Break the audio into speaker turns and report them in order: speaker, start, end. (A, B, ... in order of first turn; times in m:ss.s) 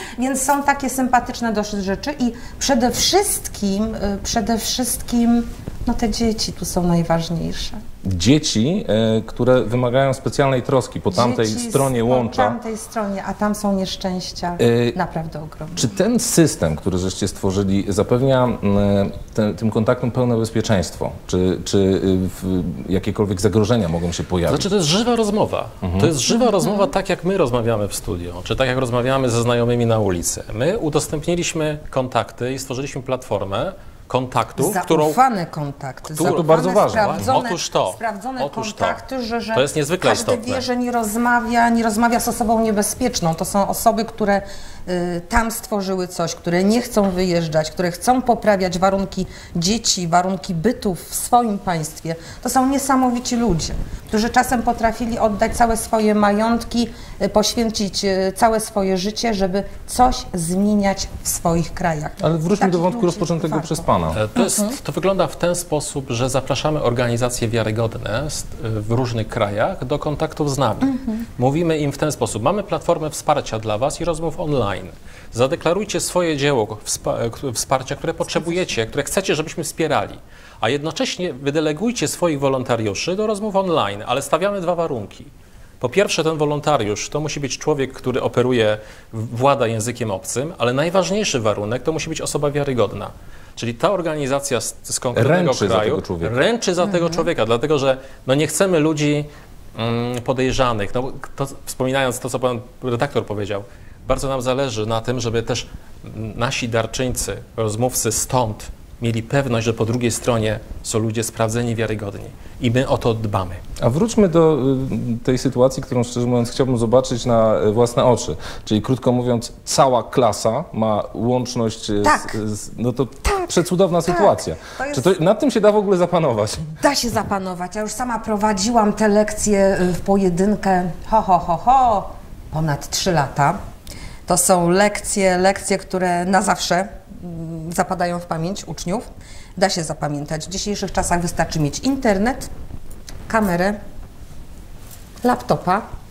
0:00.2-0:07.8 A
0:08.0-0:12.6 B
0:11.1-0:15.9 A
0:14.6-0:15.0 B
0:15.8-0:24.7 B
0:24.5-0:35.2 C
0:25.8-0:26.1 B
0:26.5-0:26.9 A
0:34.6-1:04.8 A
0:36.1-0:39.0 C
0:36.2-0:37.4 B
0:39.5-0:40.7 C
1:02.2-1:04.2 B
1:04.1-1:53.6 C
1:10.8-1:11.2 A
1:35.1-1:36.4 B
1:36.9-1:37.3 A
1:53.8-2:06.8 B
2:02.0-2:02.3 A
2:03.3-2:05.1 A
2:06.8-2:13.6 A
2:14.3-2:22.5 A
2:23.3-2:23.8 A
2:25.2-2:25.8 A